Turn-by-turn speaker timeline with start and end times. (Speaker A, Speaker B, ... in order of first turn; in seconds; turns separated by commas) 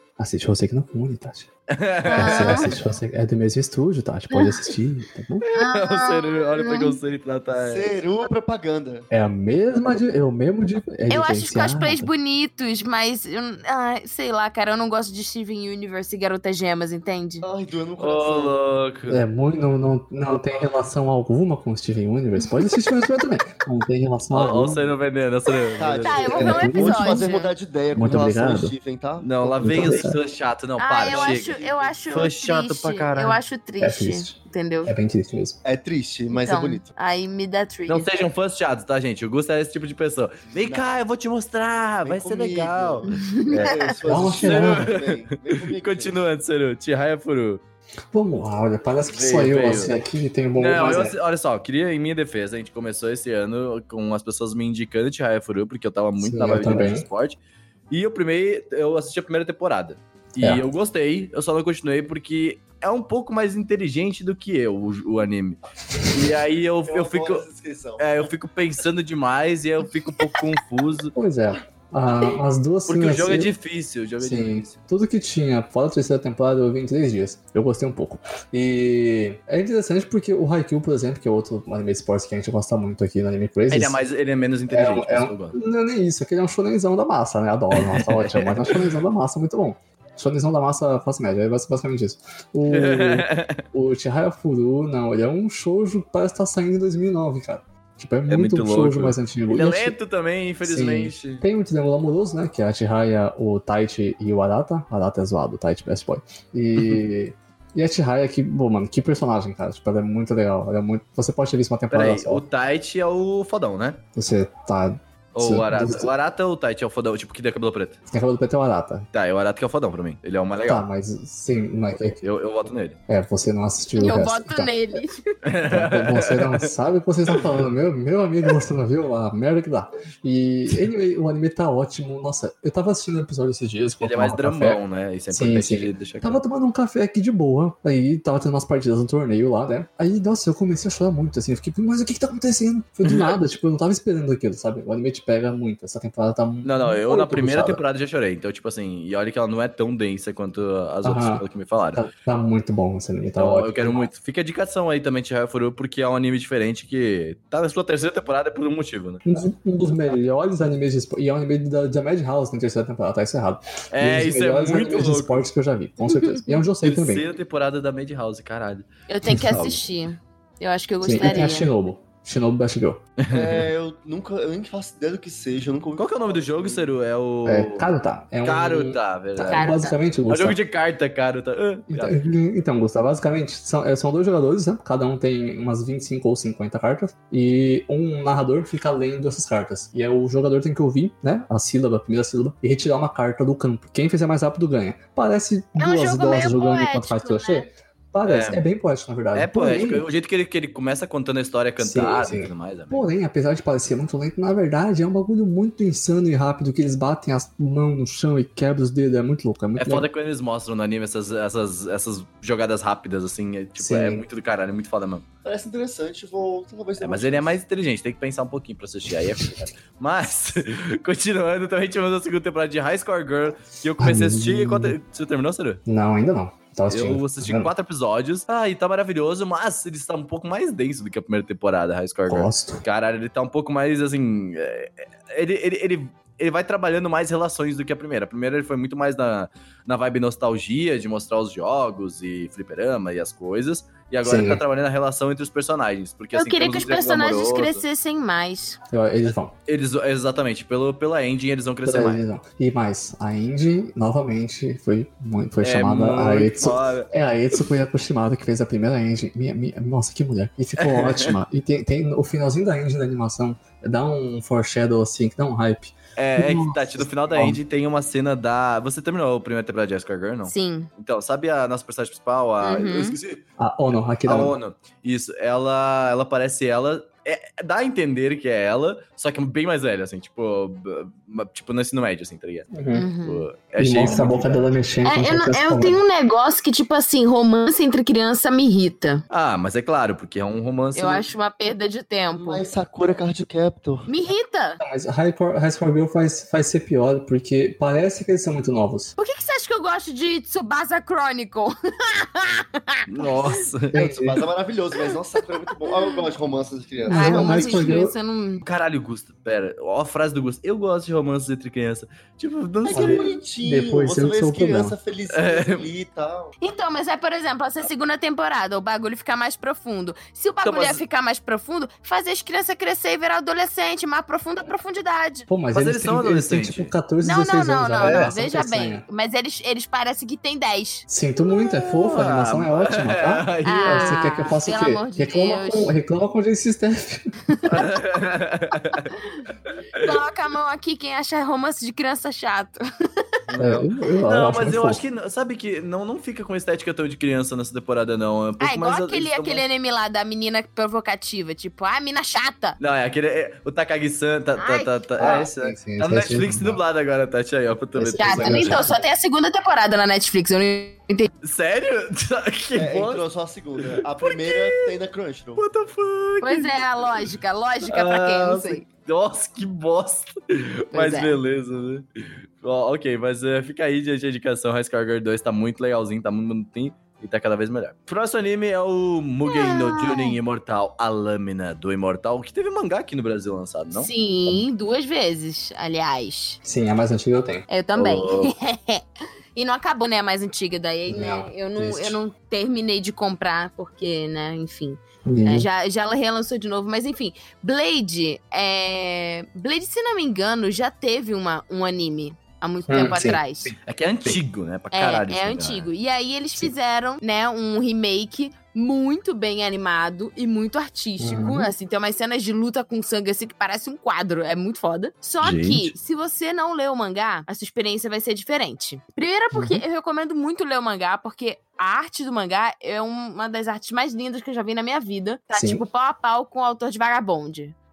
Speaker A: 0.2-1.5, Speaker B: 1.7-2.8, Speaker C: 2.0-2.8, Speaker A: 2.1-5.4, Speaker C: 4.3-4.6, Speaker B: 5.4-7.9, Speaker C: 5.5-7.0, Speaker D: 7.5-9.1, Speaker A: 9.1-12.1, Speaker C: 11.1-17.4, Speaker D: 17.4-18.6, Speaker B: 18.0-19.2, Speaker A: 19.1-24.9, Speaker B: 24.3-26.5, Speaker D: 25.8-30.1, Speaker C: 26.0-27.5, Speaker A: 26.3-27.3, Speaker A: 27.9-28.8, Speaker B: 29.2-33.4, Speaker A: 29.6-30.2, Speaker C: 30.8-34.9, Speaker D: 31.0-32.3, Speaker A: 33.8-35.6, Speaker D: 35.6-36.9, Speaker C: 36.3-38.1, Speaker B: 37.9-47.6, Speaker D: 40.5-40.9, Speaker D: 42.0-46.2, Speaker C: 43.1-43.9, Speaker A: 44.1-44.9, Speaker A: 48.1-51.2, Speaker B: 49.1-50.0, Speaker B: 50.6-57.4, Speaker A: 56.2-57.1, Speaker B: 57.9-65.6, Speaker B: 66.1-67.5, Speaker D: 66.9-68.3, Speaker B: 68.0-71.1, Speaker A: 71.2-73.5, Speaker B: 72.9-74.8, Speaker A: 74.2-84.0, Speaker B: 83.7-85.6, Speaker A: 84.7-100.0, Speaker B: 87.7-88.9, Speaker B: 92.7-93.6, Speaker B: 98.3-101.4, Speaker A: 100.6-112.4, Speaker B: 111.9-114.0, Speaker A: 114.2-116.1, Speaker B: 115.3-118.0, Speaker A: 118.1-119.1, Speaker B: 119.1-120.9, Speaker A: 120.6-122.2, Speaker B: 122.1-123.0, Speaker A: 123.1-124.7, Speaker C: 124.0-125.4, Speaker B: 125.4-126.7, Speaker A: 125.7-134.8, Speaker B: 134.0-136.4, Speaker A: 135.3-147.8, Speaker B: 143.1-143.4, Speaker B: 146.6-152.0, Speaker A: 151.0-154.1, Speaker B: 153.4-159.2, Speaker A: 159.3-167.3, Speaker B: 163.9-165.5, Speaker C: 166.1-166.6, Speaker B: 166.8-169.8, Speaker C: 169.1-171.7, Speaker A: 171.0-173.0, Speaker B: 173.2-173.7, Speaker D: 173.3-176.9, Speaker B: 176.0-177.9, Speaker A: 177.4-180.6, Speaker B: 178.4-179.7, Speaker C: 179.5-180.0, Speaker B: 180.3-182.2, Speaker A: 181.9-200.1, Speaker C: 195.8-197.7, Speaker B: 198.2-198.6, Speaker B: 199.3-203.1, Speaker A: 201.8-210.1, Speaker B: 209.8-215.3, Speaker A: 213.8-214.2, Speaker D: 215.4-217.6, Speaker B: 217.0-225.8, Speaker A: 224.0-225.0, Speaker A: 225.9-227.7, Speaker B: 226.9-247.8, Speaker A: 232.3-232.8, Speaker A: 244.2-244.6, Speaker C: 246.3-248.8, Speaker A: 248.9-249.5, Speaker B: 249.7-252.2, Speaker A: 251.8-267.6, Speaker B: 255.6-257.1, Speaker B: 260.8-261.4, Speaker B: 266.2-273.4, Speaker C: 270.5-270.9, Speaker C: 272.6-273.2, Speaker A: 273.6-274.6, Speaker B: 274.2-282.7, Speaker A: 282.7-283.1, Speaker C: 282.9-283.5, Speaker B: 283.2-284.7, Speaker A: 283.8-286.0, Speaker C: 285.0-289.2, Speaker B: 289.3-291.3, Speaker C: 290.9-292.6, Speaker D: 292.3-294.1, Speaker C: 294.1-294.8, Speaker A: 294.8-299.1, Speaker C: 299.2-303.6, Speaker B: 303.1-303.9, Speaker A: 303.9-304.4, Speaker D: 303.9-307.9, Speaker A: 307.1-308.1, Speaker C: 307.1-308.6, Speaker B: 308.6-313.3, Speaker D: 312.9-316.5, Speaker A: 312.9-315.0, Speaker B: 315.3-315.9, Speaker C: 316.6-325.5, Speaker B: 320.6-321.0, Speaker A: 325.5-329.0, Speaker B: 325.7-326.9, Speaker C: 327.2-331.1, Speaker B: 328.0-328.3, Speaker A: 331.1-337.3, Speaker B: 331.4-334.2, Speaker C: 333.6-336.0, Speaker C: 337.5-337.8, Speaker B: 337.7-339.1, Speaker C: 338.9-339.4, Speaker C: 339.9-342.8, Speaker B: 343.5-349.6, Speaker A: 343.6-345.0, Speaker C: 348.6-352.8, Speaker B: 352.8-358.9, Speaker C: 354.6-355.0, Speaker A: 355.2-356.8, Speaker A: 358.0-359.0, Speaker C: 358.2-361.3, Speaker B: 361.4-363.2, Speaker D: 362.8-365.6, Speaker B: 363.8-364.8, Speaker B: 365.6-367.3, Speaker C: 366.4-368.9, Speaker B: 367.9-372.1, Speaker C: 370.9-371.4, Speaker B: 372.6-384.1, Speaker C: 379.5-380.4, Speaker C: 383.9-386.6, Speaker A: 386.6-387.6, Speaker C: 387.7-389.0, Speaker B: 387.9-388.5, Speaker C: 389.6-403.7, Speaker A: 391.1-392.2, Speaker A: 395.2-395.7, Speaker A: 402.9-404.4, Speaker B: 403.9-405.9, Speaker C: 404.9-427.8, Speaker A: 411.2-411.7, Speaker B: 415.4-415.9, Speaker A: 419.5-419.8, Speaker A: 425.5-425.8